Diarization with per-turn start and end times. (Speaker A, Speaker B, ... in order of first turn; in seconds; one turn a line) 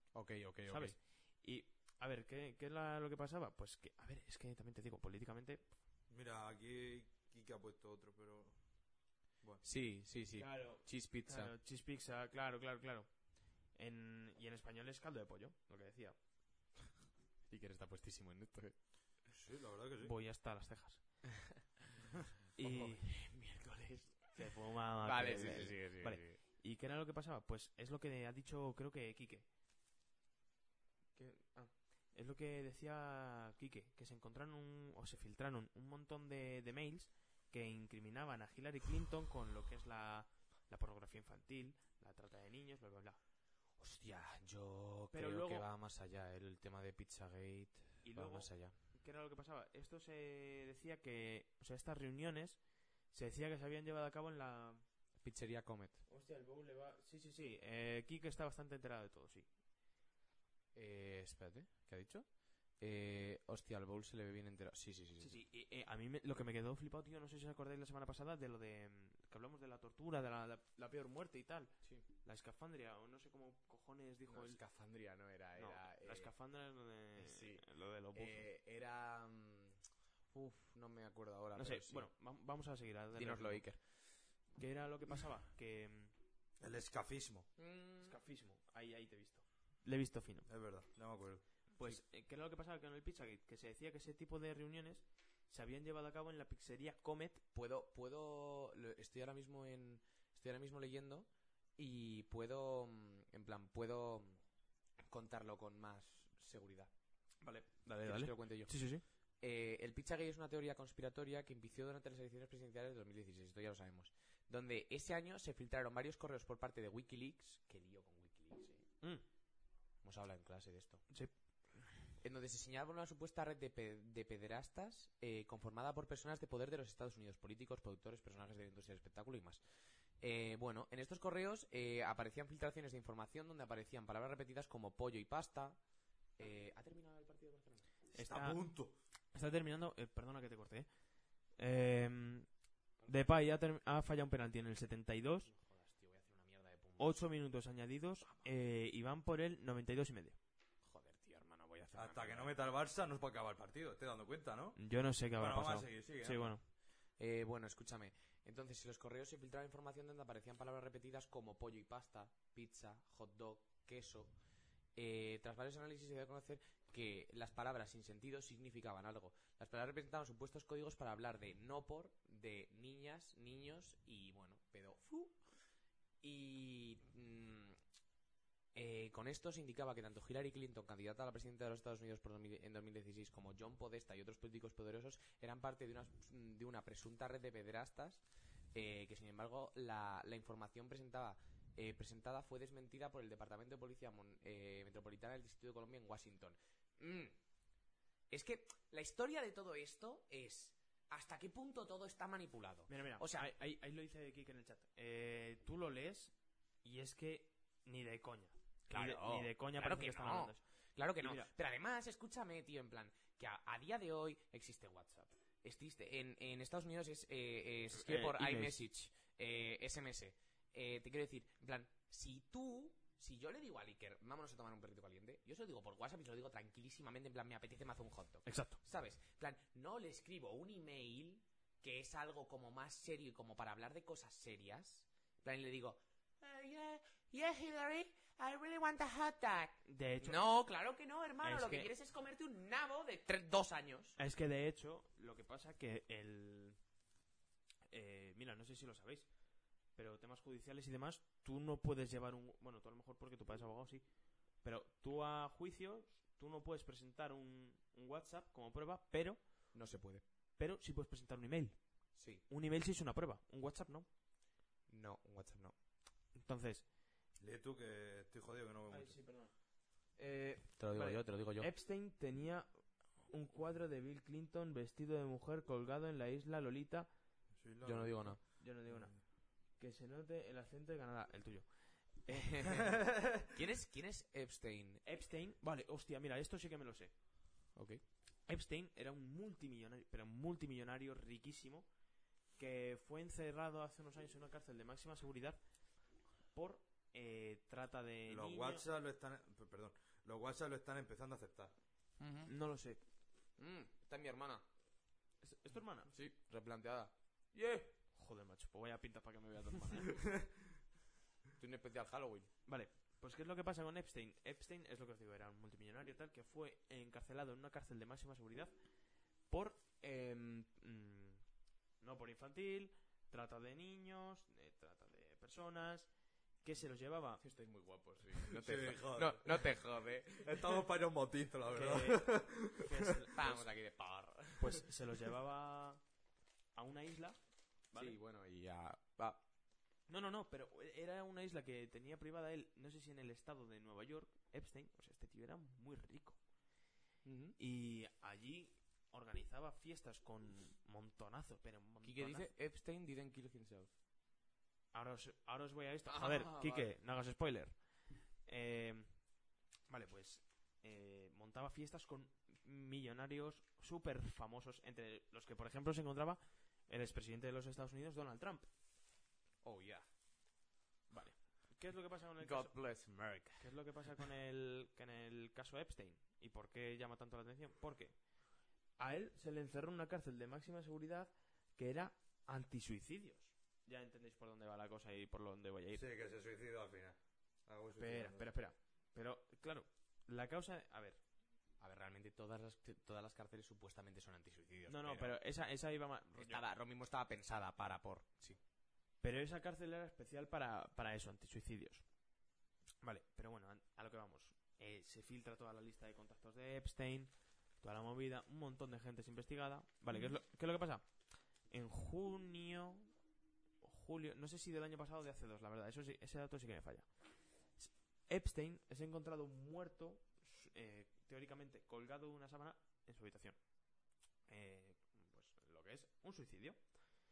Speaker A: 0.1-0.9
Speaker B: 0.7-5.7
Speaker C: 6.1-8.6
Speaker A: 9.6-11.5
Speaker B: 10.4-13.1
Speaker B: 13.7-16.2
Speaker A: 17.5-18.8
Speaker C: 19.3-20.1
Speaker B: 20.0-21.0
Speaker B: 22.6-23.2
Speaker A: 22.6-24.3
Speaker B: 24.3-29.5
Speaker A: 25.0-26.4
Speaker B: 31.1-43.2
Speaker A: 43.8-48.7
Speaker B: 45.1-45.7
Speaker B: 48.0-52.6
Speaker B: 53.1-54.8
Speaker A: 55.2-56.0
Speaker B: 56.1-59.5
Speaker A: 60.7-65.4
Speaker B: 65.2-74.6
Speaker A: 74.3-76.3
Speaker B: 75.6-78.5
Speaker A: 77.2-79.8
Speaker A: 80.3-82.1
Speaker B: 81.5-84.0
Speaker A: 83.2-83.8
Speaker B: 84.5-86.1
Speaker C: 86.6-87.5
Speaker A: 87.6-88.1
Speaker B: 88.0-90.5
Speaker C: 90.5-91.4
Speaker B: 91.8-97.4
Speaker A: 97.5-104.4
Speaker A: 105.0-106.9
Speaker B: 107.4-109.0
Speaker A: 108.0-108.8
Speaker A: 109.4-118.9
Speaker A: 120.0-121.0
Speaker B: 121.1-121.9
Speaker A: 122.2-129.6
Speaker A: 130.2-135.8
Speaker A: 136.4-137.9
Speaker C: 138.1-139.0
Speaker B: 138.1-138.6
Speaker B: 139.3-140.9
Speaker B: 141.6-142.5
Speaker B: 143.1-145.5
Speaker A: 145.5-147.2
Speaker B: 147.0-150.4
Speaker A: 150.8-152.5
Speaker C: 151.9-154.8
Speaker B: 154.8-156.6
Speaker C: 155.3-156.6
Speaker A: 157.2-164.3
Speaker A: 164.9-175.4
Speaker A: 176.2-177.8
Speaker A: 178.7-197.4
Speaker A: 198.3-203.5
Speaker B: 202.9-206.3
Speaker B: 206.8-210.6
Speaker A: 208.9-244.2
Speaker B: 211.2-211.5
Speaker B: 217.9-218.8
Speaker B: 228.4-228.8
Speaker B: 239.8-240.4
Speaker B: 241.4-241.9
Speaker B: 244.2-246.8
Speaker B: 247.9-249.3
Speaker B: 249.9-254.0
Speaker B: 254.6-259.4
Speaker A: 259.7-260.2
Speaker B: 260.6-261.8
Speaker A: 262.1-262.4
Speaker B: 262.5-264.1
Speaker A: 264.9-265.7
Speaker B: 266.3-266.8
Speaker C: 267.4-269.2
Speaker B: 268.9-269.5
Speaker B: 270.2-272.7
Speaker A: 270.8-271.7
Speaker B: 273.2-277.1
Speaker C: 277.5-279.2
Speaker A: 277.8-278.4
Speaker B: 278.4-279.2
Speaker B: 279.8-282.9
Speaker A: 282.4-285.0
Speaker C: 282.7-283.5
Speaker B: 285.0-287.1
Speaker A: 287.8-288.0
Speaker B: 288.5-291.9
Speaker B: 292.6-295.6
Speaker B: 296.5-298.9
Speaker C: 298.3-301.7
Speaker A: 302.2-302.5
Speaker B: 302.5-303.0
Speaker A: 303.6-304.6
Speaker B: 305.4-306.1
Speaker A: 306.1-307.9
Speaker B: 308.1-310.2
Speaker A: 311.6-312.5
Speaker B: 312.6-318.7
Speaker B: 319.5-321.4
Speaker B: 322.0-326.1
Speaker B: 326.6-327.4
Speaker A: 327.4-330.8
Speaker C: 328.4-329.8
Speaker C: 330.3-333.3
Speaker B: 331.7-333.7
Speaker A: 333.3-334.8
Speaker B: 334.6-336.0
Speaker B: 336.7-337.4
Speaker B: 337.9-338.2
Speaker A: 337.9-339.4
Speaker B: 340.1-346.4
Speaker A: 347.2-347.6
Speaker B: 347.6-352.5
Speaker A: 352.0-353.9
Speaker B: 354.9-357.8
Speaker A: 356.1-356.9
Speaker B: 358.4-359.2
Speaker B: 359.9-368.7
Speaker A: 369.6-370.1
Speaker B: 371.1-372.8
Speaker A: 372.4-373.7
Speaker B: 373.6-378.2
Speaker B: 379.0-386.0
Speaker C: 385.9-388.5
Speaker B: 388.0-391.2
Speaker A: 391.8-395.4
Speaker B: 394.9-396.6
Speaker A: 396.3-398.6
Speaker B: 399.2-402.0
Speaker B: 403.0-411.1
Speaker B: 411.7-413.1
Speaker B: 413.8-417.1
Speaker B: 417.8-423.6
Speaker B: 424.5-426.8